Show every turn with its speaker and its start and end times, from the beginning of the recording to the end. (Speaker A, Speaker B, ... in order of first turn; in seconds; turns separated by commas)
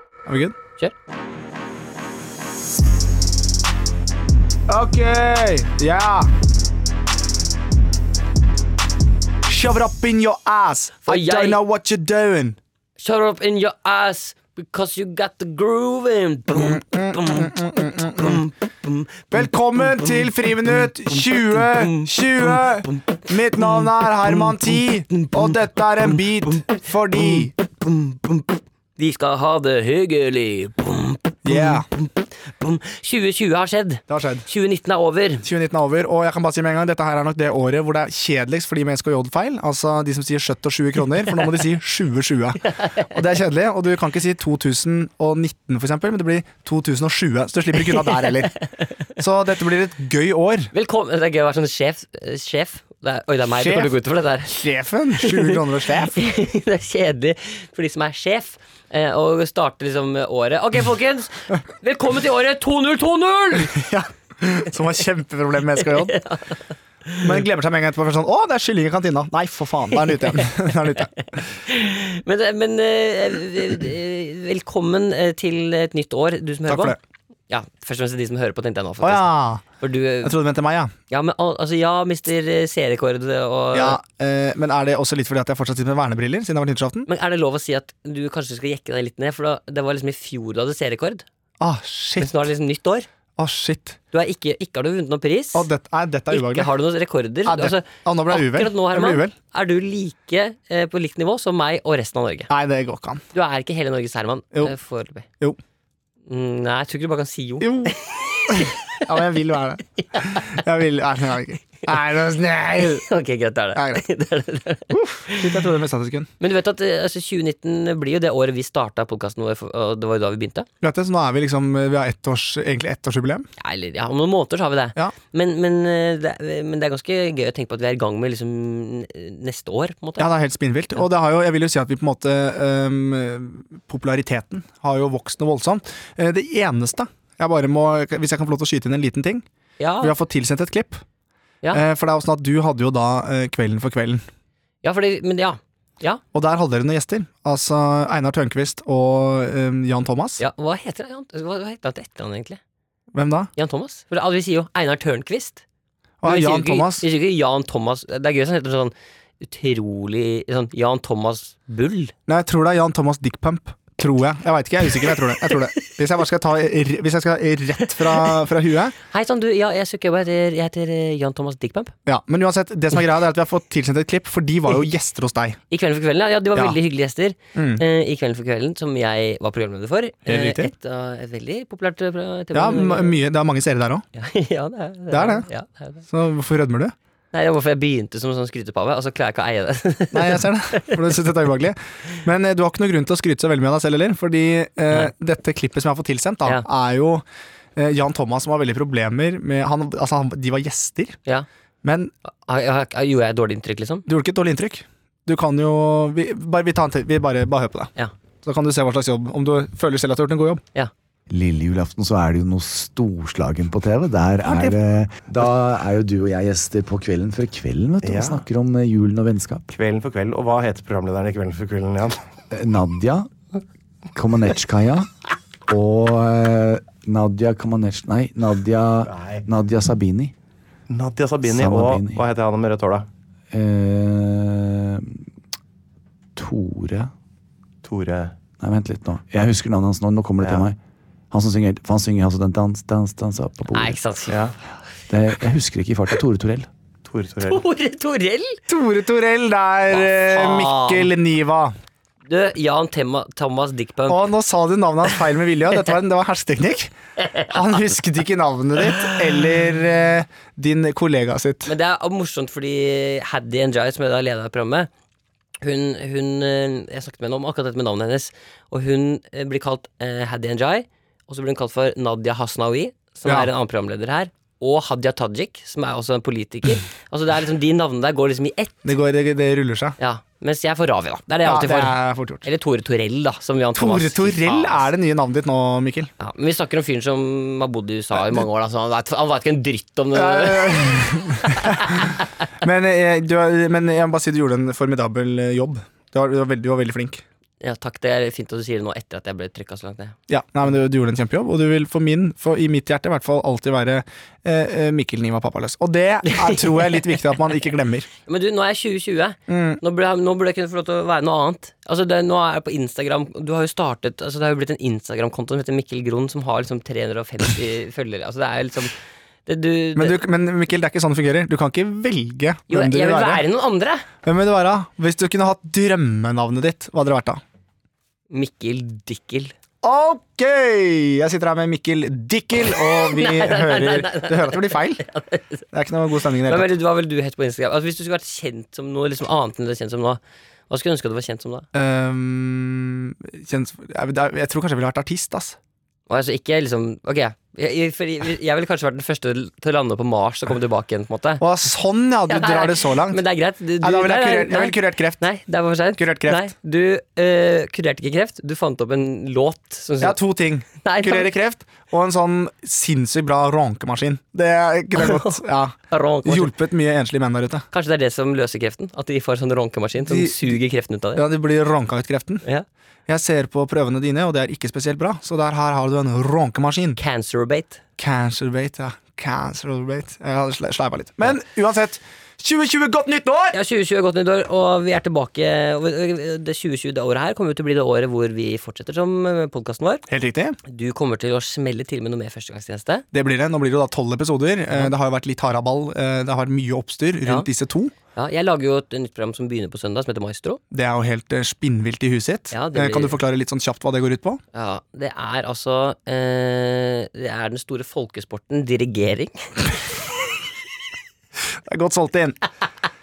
Speaker A: 0.2-0.5, Speaker A: 4.7-6.3, Speaker A: 9.4-12.6, Speaker B: 11.1-11.6, Speaker B: 13.0-17.5, Speaker A: 16.5-18.5, Speaker B: 18.1-19.2, Speaker A: 19.3-27.5, Speaker B: 21.1-22.6, Speaker B: 27.8-35.5, Speaker A: 31.4-31.9, Speaker A: 34.1-34.4, Speaker A: 35.4-48.6, Speaker B: 42.7-43.1, Speaker B: 48.0-48.4, Speaker A: 49.2-50.7, Speaker B: 50.7-54.6, Speaker A: 53.6-53.9, Speaker A: 54.5-56.2, Speaker B: 55.2-55.5, Speaker B: 56.1-63.7, Speaker A: 63.6-66.1, Speaker B: 66.0-67.3, Speaker A: 67.2-71.4, Speaker B: 71.4-77.0, Speaker A: 76.7-77.0, Speaker B: 77.5-80.3, Speaker A: 79.0-79.7, Speaker A: 80.2-80.9, Speaker B: 81.1-84.0, Speaker A: 83.7-87.1, Speaker B: 87.1-91.2, Speaker A: 91.6-92.3, Speaker B: 92.2-93.1, Speaker A: 93.4-94.0, Speaker B: 94.1-95.7, Speaker A: 95.5-96.7, Speaker B: 96.3-102.5, Speaker A: 97.5-99.3, Speaker A: 102.5-103.2, Speaker B: 103.3-105.2, Speaker B: 106.3-109.0, Speaker A: 107.6-107.9, Speaker A: 108.5-113.0, Speaker B: 110.1-110.6, Speaker B: 112.8-115.6, Speaker A: 113.7-114.0, Speaker A: 114.9-116.3, Speaker B: 116.4-120.7, Speaker A: 120.8-123.5, Speaker B: 123.6-130.3, Speaker A: 130.2-139.4, Speaker B: 139.8-140.1, Speaker A: 140.0-141.0, Speaker A: 141.7-144.2, Speaker B: 144.8-146.2, Speaker A: 146.3-150.4, Speaker B: 150.4-152.6, Speaker A: 153.1-153.5, Speaker B: 153.6-155.6, Speaker A: 156.2-157.1, Speaker B: 156.2-162.1, Speaker A: 162.3-168.9, Speaker B: 168.0-168.3, Speaker B: 169.1-171.9, Speaker A: 172.1-175.6, Speaker B: 175.7-183.2, Speaker A: 177.5-177.8, Speaker A: 180.2-180.7, Speaker A: 182.5-184.1, Speaker B: 184.1-186.0, Speaker A: 185.1-185.5, Speaker A: 186.1-186.9, Speaker B: 187.3-191.0, Speaker A: 190.1-197.2, Speaker A: 197.8-201.2, Speaker A: 201.8-202.1, Speaker B: 202.4-204.0, Speaker A: 204.1-207.9, Speaker A: 208.4-210.6, Speaker C: 211.3-219.7, Speaker A: 214.4-214.8, Speaker D: 218.0-218.4, Speaker D: 219.7-222.2, Speaker C: 222.5-223.3, Speaker C: 224.1-225.1, Speaker C: 225.7-230.3, Speaker D: 229.1-229.4, Speaker D: 230.9-233.1, Speaker C: 231.4-232.2, Speaker C: 233.5-235.3, Speaker C: 236.3-237.1, Speaker D: 237.8-238.3, Speaker C: 238.6-240.8, Speaker D: 240.4-240.7, Speaker C: 241.3-244.0, Speaker B: 243.7-244.4, Speaker D: 244.3-244.5, Speaker C: 245.1-246.7, Speaker D: 247.0-247.6, Speaker B: 247.5-248.6, Speaker A: 248.7-251.7, Speaker B: 249.9-251.1, Speaker B: 252.3-254.2, Speaker A: 254.1-261.7, Speaker B: 261.6-264.9, Speaker B: 265.6-278.7, Speaker A: 273.2-273.5, Speaker A: 278.8-279.9, Speaker B: 280.0-284.9, Speaker A: 281.4-282.4, Speaker A: 283.8-286.1, Speaker B: 286.2-292.1, Speaker A: 288.1-288.4, Speaker A: 290.1-297.2, Speaker B: 297.6-300.1, Speaker A: 300.3-308.1, Speaker B: 306.3-307.2, Speaker B: 308.2-318.9, Speaker A: 309.5-309.8, Speaker B: 319.4-320.2, Speaker A: 319.9-323.4, Speaker B: 322.7-324.1, Speaker A: 324.2-327.4, Speaker B: 328.3-329.5, Speaker A: 329.8-335.0, Speaker B: 332.7-335.6, Speaker A: 335.7-336.7, Speaker B: 336.4-341.6, Speaker A: 341.7-345.6, Speaker B: 346.1-351.4, Speaker A: 351.4-353.2, Speaker B: 352.3-360.2, Speaker A: 353.8-355.2, Speaker A: 356.0-356.5, Speaker A: 360.0-367.6, Speaker B: 360.8-361.3, Speaker B: 365.0-366.5, Speaker B: 367.7-371.2, Speaker A: 370.0-370.5, Speaker A: 371.1-372.4, Speaker A: 373.1-377.0, Speaker B: 377.0-377.8, Speaker A: 378.0-383.6, Speaker B: 383.5-390.0, Speaker A: 390.1-390.6, Speaker B: 390.7-393.0, Speaker A: 393.1-397.9, Speaker B: 398.1-400.6, Speaker A: 400.7-404.4, Speaker B: 402.5-403.2, Speaker B: 404.5-409.3, Speaker A: 411.7-412.4